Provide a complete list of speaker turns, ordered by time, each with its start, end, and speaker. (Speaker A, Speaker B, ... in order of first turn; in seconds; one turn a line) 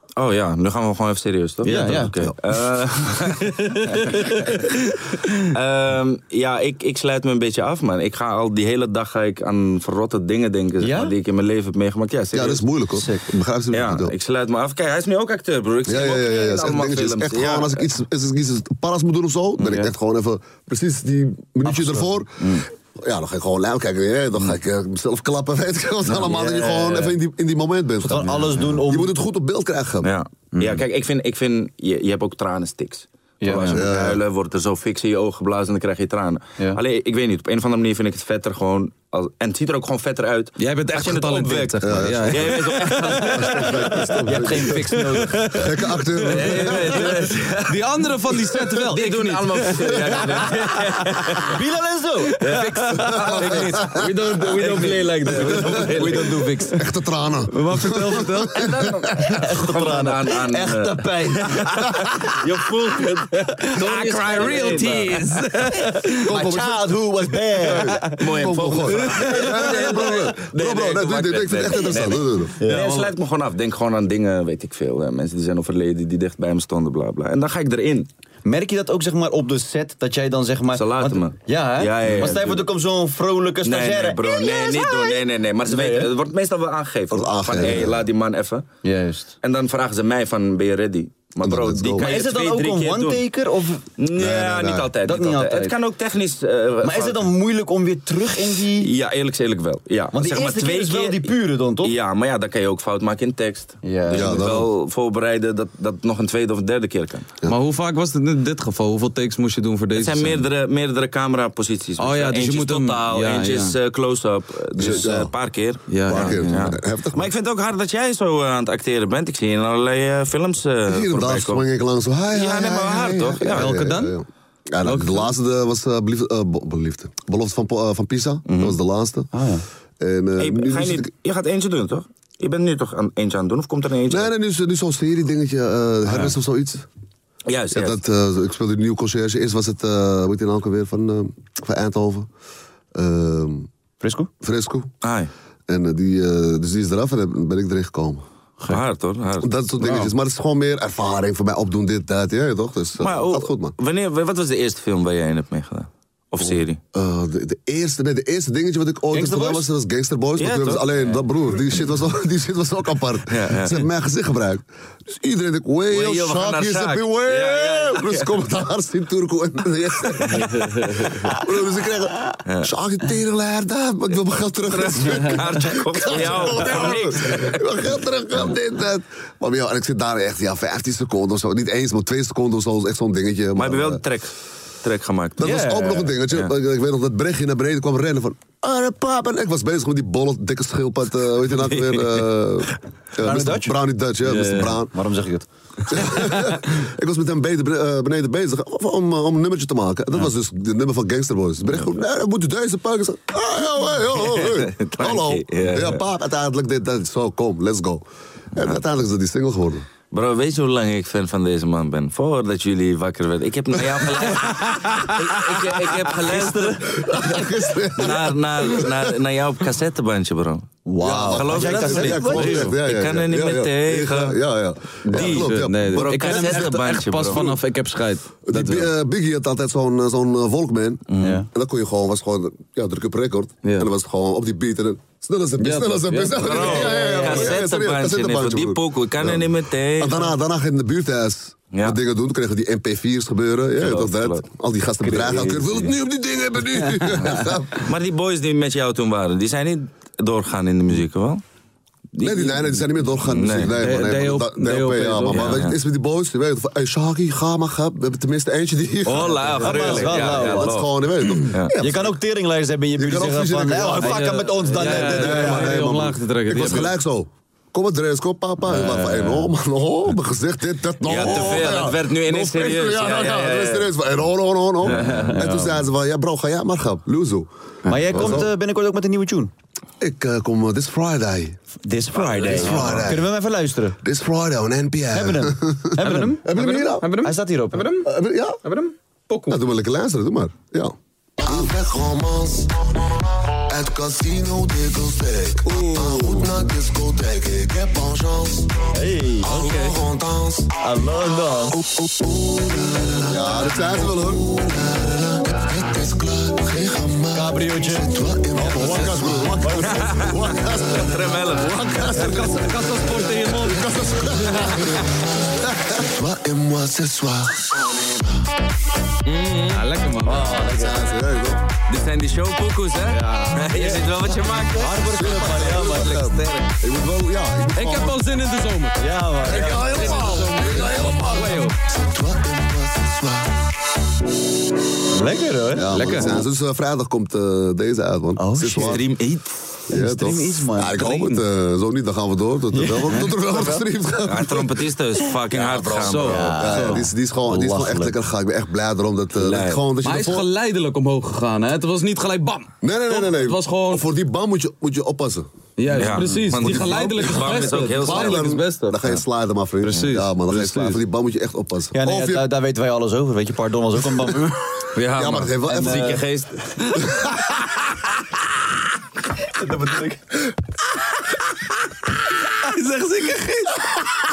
Speaker A: 0.2-4.6
Speaker B: 1.6-2.1
Speaker C: 1.7-2.1
Speaker C: 3.4-4.7
Speaker A: 5.4-12.6
Speaker B: 10.8-11.1
Speaker D: 12.3-14.1
Speaker B: 13.0-13.3
Speaker A: 13.7-17.9
Speaker D: 15.9-30.1
Speaker B: 21.6-22.5
Speaker B: 26.1-27.1
Speaker B: 28.0-29.1
Speaker A: 30.0-44.1
Speaker B: 33.4-33.8
Speaker D: 33.7-34.2
Speaker C: 40.6-46.6
Speaker D: 41.8-45.0
Speaker B: 44.2-45.7
Speaker D: 45.5-47.3
Speaker A: 46.2-51.6
Speaker C: 47.6-51.5
Speaker B: 51.4-52.8
Speaker C: 52.3-55.0
Speaker A: 52.4-56.6
Speaker D: 53.1-54.1
Speaker B: 53.4-56.8
Speaker D: 55.4-56.0
Speaker D: 56.7-59.0
Speaker C: 57.5-59.0
Speaker B: 57.8-58.2
Speaker B: 59.0-62.2
Speaker A: 59.2-65.4
Speaker C: 63.6-66.3
Speaker B: 66.1-68.1
Speaker D: 66.3-67.0
Speaker D: 67.6-72.6
Speaker A: 68.1-78.1
Speaker C: 69.0-69.7
Speaker B: 72.6-73.1
Speaker C: 72.7-73.0
Speaker B: 78.4-86.1
Speaker A: 80.7-82.7
Speaker A: 83.6-88.7
Speaker D: 87.1-88.0
Speaker B: 88.8-89.3
Speaker A: 89.4-93.2
Speaker D: 91.4-92.1
Speaker B: 92.0-93.9
Speaker A: 94.0-97.3
Speaker D: 94.1-94.9
Speaker B: 95.0-95.8
Speaker B: 96.8-98.9
Speaker A: 98.7-107.3
Speaker B: 100.1-102.0
Speaker B: 103.8-104.4
Speaker D: 104.1-104.7
Speaker C: 107.5-110.4
Speaker A: 109.9-121.6
Speaker C: 112.0-113.8
Speaker D: 114.8-115.3
Speaker C: 115.9-116.5
Speaker D: 116.0-117.3
Speaker D: 120.9-129.3
Speaker A: 122.3-123.7
Speaker C: 123.5-124.2
Speaker C: 124.8-125.3
Speaker A: 128.5-128.8
Speaker B: 129.3-129.6
Speaker D: 130.0-131.1
Speaker A: 130.4-134.3
Speaker D: 134.1-136.8
Speaker A: 137.4-138.0
Speaker D: 137.7-142.3
Speaker D: 142.9-143.7
Speaker B: 144.0-144.3
Speaker D: 144.4-144.9
Speaker A: 145.0-145.3
Speaker D: 145.7-148.2
Speaker A: 148.7-149.5
Speaker D: 149.4-153.7
Speaker B: 149.8-150.1
Speaker A: 153.0-156.8
Speaker D: 156.4-184.0
Speaker B: 159.1-159.6
Speaker A: 160.4-161.2
Speaker A: 163.3-163.9
Speaker A: 165.9-168.3
Speaker A: 170.2-171.1
Speaker A: 172.4-172.7
Speaker A: 174.7-177.6
Speaker A: 183.6-184.3
Speaker A: 184.8-186.5
Speaker D: 185.4-194.9
Speaker B: 185.4-185.9
Speaker A: 191.7-192.3
Speaker B: 193.2-195.5
Speaker D: 195.9-208.0
Speaker A: 204.2-206.0
Speaker D: 208.6-209.9
Speaker A: 210.1-216.9
Speaker C: 214.5-215.1
Speaker B: 216.1-216.9
Speaker D: 216.8-219.1
Speaker A: 217.9-224.4
Speaker B: 220.9-222.7
Speaker D: 221.0-227.6
Speaker C: 222.3-222.6
Speaker A: 225.1-227.6
Speaker C: 225.2-228.9
Speaker B: 226.3-226.6
Speaker D: 228.4-247.9
Speaker A: 231.1-231.4
Speaker B: 231.2-231.5
Speaker C: 233.6-233.9
Speaker C: 235.6-237.4
Speaker A: 236.4-240.3
Speaker B: 236.9-237.6
Speaker A: 241.7-242.0
Speaker A: 243.8-244.4
Speaker B: 245.1-245.6
Speaker A: 245.2-245.9
Speaker A: 247.2-251.4
Speaker A: 252.1-253.8
Speaker D: 252.2-262.1
Speaker C: 253.8-255.7
Speaker A: 255.3-255.8
Speaker A: 259.1-261.7
Speaker B: 259.6-260.8
Speaker B: 261.8-265.9
Speaker D: 263.0-278.5
Speaker C: 264.0-267.0
Speaker A: 268.7-269.5
Speaker A: 271.0-273.9
Speaker A: 274.8-275.4
Speaker B: 274.9-275.9
Speaker B: 277.9-279.5
Speaker D: 280.0-281.6
Speaker B: 281.8-284.0
Speaker A: 282.3-283.1
Speaker D: 282.4-283.3
Speaker D: 284.0-287.1
Speaker B: 285.1-288.0
Speaker C: 286.0-288.1
Speaker D: 288.0-288.6
Speaker C: 288.6-289.6
Speaker D: 289.5-291.8
Speaker E: 291.5-292.6
Speaker E: 293.9-298.7
Speaker D: 295.5-296.7
Speaker B: 298.9-299.8
Speaker A: 299.5-300.0
Speaker E: 299.5-300.6
Speaker B: 300.7-301.9
Speaker D: 303.2-304.6
Speaker E: 305.9-306.2
Speaker B: 307.3-310.1
Speaker E: 308.1-308.6
Speaker D: 308.4-316.4
Speaker A: 309.8-312.0
Speaker C: 311.8-313.9
Speaker A: 319.3-319.8
Speaker C: 319.7-320.6
Speaker B: 320.2-321.1
Speaker D: 320.2-321.6
Speaker A: 321.9-326.7
Speaker C: 323.1-324.0
Speaker B: 323.7-326.3
Speaker D: 325.1-328.3
Speaker C: 327.8-331.8
Speaker B: 329.0-330.8
Speaker D: 329.4-333.5
Speaker B: 335.1-336.4
Speaker D: 335.7-339.1
Speaker C: 335.9-336.4
Speaker B: 338.4-339.0
Speaker A: 338.7-339.5
Speaker D: 339.9-344.8
Speaker B: 339.9-341.3
Speaker C: 341.0-341.4
Speaker B: 342.7-343.9
Speaker A: 344.2-346.8
Speaker D: 345.5-350.5
Speaker C: 346.0-347.0
Speaker B: 346.2-348.1
Speaker A: 349.4-349.8
Speaker C: 350.0-354.1
Speaker D: 352.8-355.5
Speaker C: 355.8-359.1
Speaker A: 355.9-358.5
Speaker D: 356.6-362.5
Speaker C: 359.8-361.0
Speaker B: 361.9-364.6
Speaker A: 364.9-367.0
Speaker D: 365.1-366.2
Speaker B: 365.7-366.2
Speaker D: 367.0-367.3
Speaker B: 369.4-370.2
Speaker C: 372.5-373.8